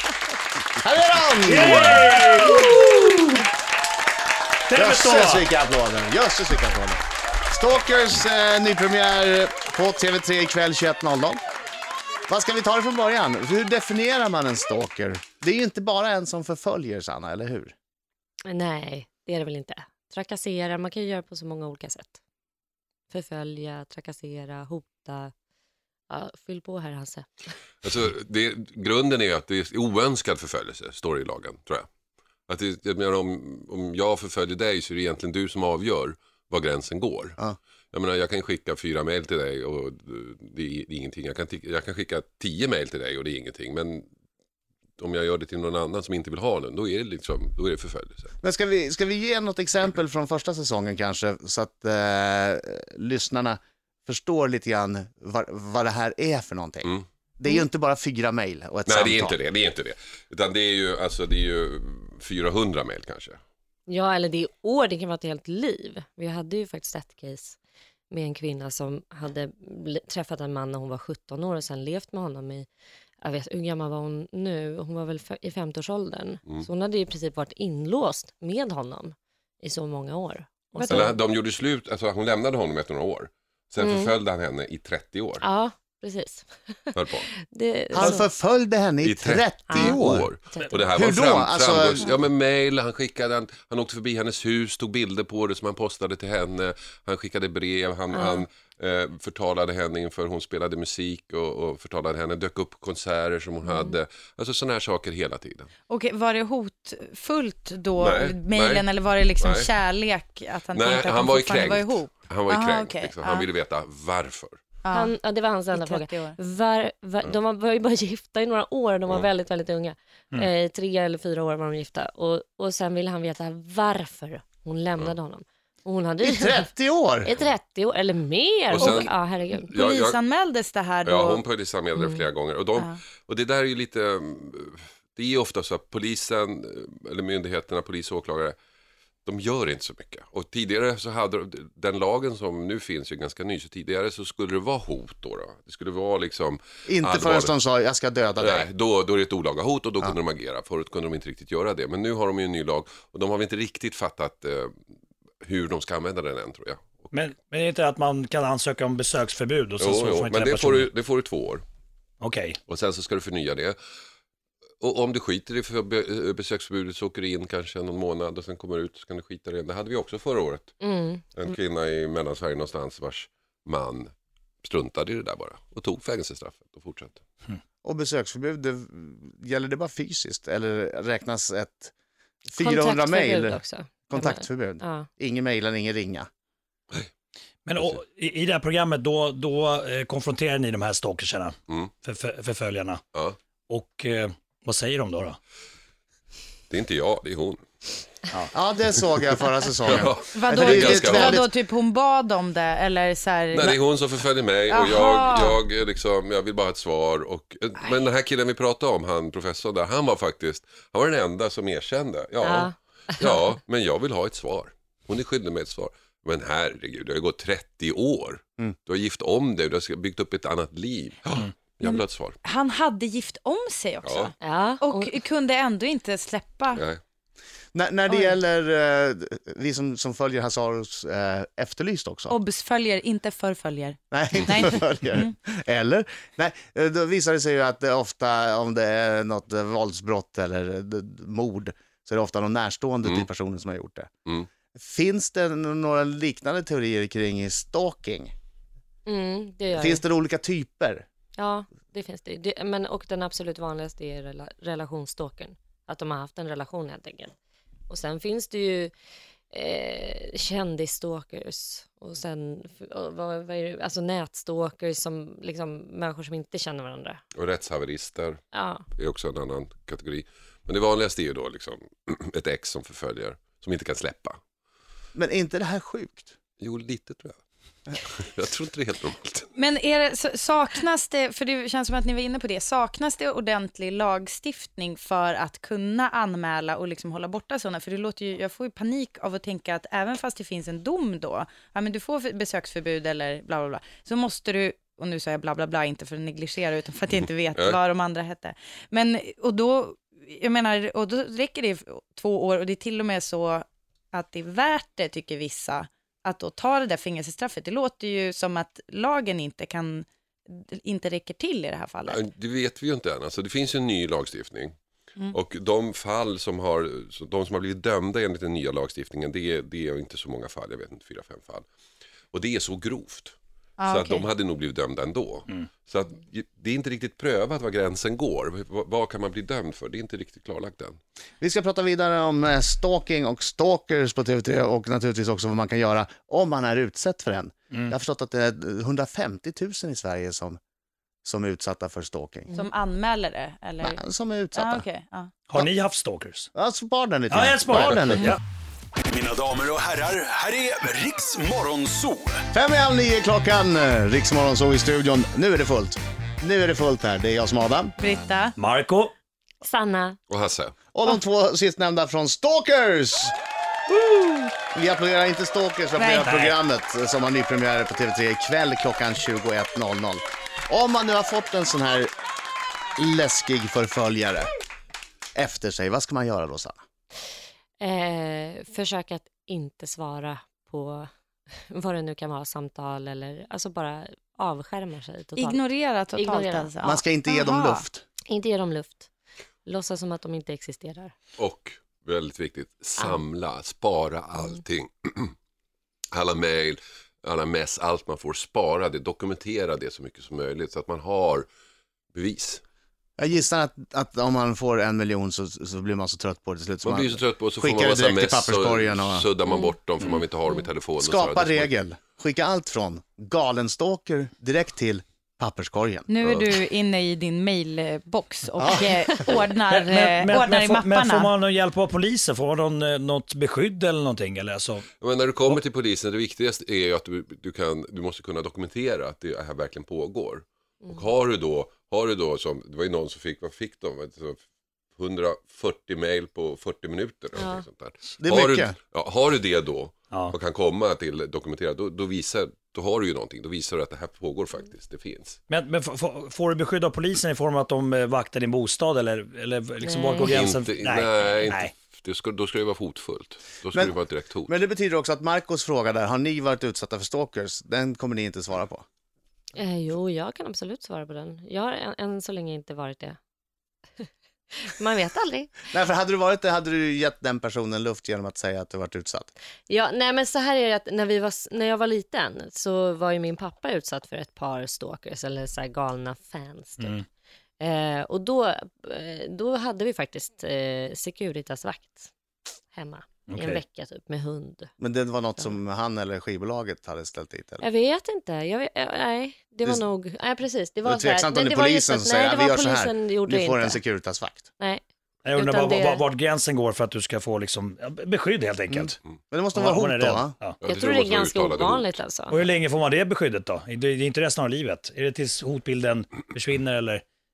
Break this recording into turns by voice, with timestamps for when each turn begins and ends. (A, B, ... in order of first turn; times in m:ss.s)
0:00.8-0:03.3 A
0:01.5-0:02.8 B
0:04.7-0:05.4 B
0:04.7-0:07.0 A
0:07.5-0:11.4 A
0:12.3-0:17.7 A
0:18.5-0:22.2 C
0:23.1-0:25.3 C
0:26.1-0:27.3 C
0:27.8-0:31.9 D
0:32.5-0:37.4 D
0:37.9-0:44.1 D
0:45.0-0:48.3 D
0:48.4-0:59.4 A
0:58.9-1:03.4 D
1:03.9-1:07.6 C
1:08.1-1:12.7 C
1:13.2-1:21.2 C
1:20.8-1:25.4 D
1:23.8-1:24.1 C
1:25.4-1:28.3 C
1:26.9-1:27.3 D
1:27.9-1:30.3 A
1:29.0-1:45.7 D
1:29.7-1:30.1 C
1:30.9-1:32.1 A
1:38.1-1:38.4 C
1:45.9-1:53.5 E
1:48.0-1:48.9 D
1:49.4-1:49.7 D
1:50.7-1:54.6 D
1:54.8-1:55.1 E
1:54.9-2:06.7 C
1:55.7-1:56.4 E
2:06.2-2:07.3 A
2:07.2-2:09.7 C
2:08.7-2:10.2 D
2:08.8-2:09.1 E
2:09.7-2:11.4 E
2:11.0-2:18.6 D
2:12.0-2:12.2 C
2:19.2-2:27.5 D
2:26.9-2:28.7 A
2:28.4-2:34.7 D
2:35.4-2:37.1 D
2:37.1-2:40.9 B
2:39.8-2:41.6 D
2:42.2-2:42.6 B
2:42.7-2:43.8 D
2:44.8-2:50.7 D
2:50.8-2:51.2 C
2:51.4-2:54.1 D
2:54.6-2:57.2 D
2:57.8-3:01.9 A
3:02.5-3:06.3 A
3:02.6-3:05.1 C
3:07.6-3:13.0 B
3:13.7-3:15.4 B
3:16.7-3:17.6 D
3:18.5-3:21.5 A
3:19.9-3:21.5 D
3:20.4-3:24.1 E
3:23.5-3:42.4 D
3:24.7-3:25.6 E
3:32.4-3:32.7 C
3:41.8-3:46.8 E
3:44.0-3:44.3 D
3:44.4-3:45.1 C
3:46.8-3:47.0 D
3:47.7-3:52.4 A
3:48.1-3:48.4 E
3:52.3-3:55.3 E
3:54.1-4:04.1 A
4:04.8-4:08.3 A
4:09.1-4:10.0 C
4:09.8-4:11.0 A
4:11.4-4:17.3 C
4:17.9-4:18.9 C
4:19.5-4:27.2 C
4:27.4-4:28.4 D
4:28.5-4:28.9 C
4:28.9-4:34.4 D
4:35.2-4:36.3 A
4:36.6-4:39.5 D
4:39.6-5:12.2 E
4:57.5-4:57.8 D
5:12.1-5:14.8 D
5:15.3-5:21.7 D
5:22.3-5:23.4 D
5:23.8-5:24.3 E
5:23.9-5:31.0 D
5:31.4-5:40.6 A
5:41.2-5:42.5 A
5:42.5-5:44.0 E
5:43.8-5:44.9 A
5:44.5-5:45.4 E
5:45.5-5:46.5 B
5:46.6-5:48.4 A
5:47.3-5:48.4 B
5:49.1-5:52.4 F
5:52.5-5:58.0 A
5:58.0-5:58.6 E
5:58.6-5:59.1 B
5:59.6-6:00.2 C
6:00.3-6:00.7 D
6:00.9-6:03.4 A
6:04.6-6:12.1 A
6:06.0-6:06.3 E
6:06.3-6:06.5 B
6:13.0-6:14.5 A
6:15.4-6:16.8 A
6:17.8-6:21.1 C
6:21.7-6:25.6 C
6:25.4-6:27.9 E
6:26.1-6:26.7 C
6:26.8-6:28.0 A
6:28.3-6:29.1 C
6:29.6-6:31.1 C
6:31.4-6:35.3 D
6:36.1-6:41.5 D
6:42.2-6:42.6 D
6:43.2-6:49.2 A
6:46.8-6:51.7 D
6:49.5-6:49.8 C
6:51.0-6:56.1 A
6:56.1-7:01.3 E
6:58.6-6:58.9 A
6:59.7-7:04.9 B
7:05.0-7:14.4 D
7:15.0-7:25.4 D
7:17.4-7:17.6 C
7:18.2-7:18.8 A
7:25.5-7:31.7 B
7:29.8-7:30.4 C
7:30.3-7:34.5 D
7:33.7-7:38.8 A
7:39.6-7:43.2 C
7:44.7-7:45.5 C
7:45.7-7:49.3 A
7:49.7-7:57.0 C
7:56.8-7:57.0 B
7:57.6-8:02.1 C
8:02.7-8:04.7 C
8:03.3-8:03.6 B
8:04.8-8:07.6 A
8:07.6-8:13.8 C
8:10.8-8:14.5 A
8:14.6-8:14.8 C
8:15.2-8:18.9 B
8:15.4-8:16.0 C
8:18.7-8:20.4 A
8:19.5-8:20.6 B
8:20.6-8:22.0 D
8:20.6-8:22.4 C
8:22.3-8:27.0 B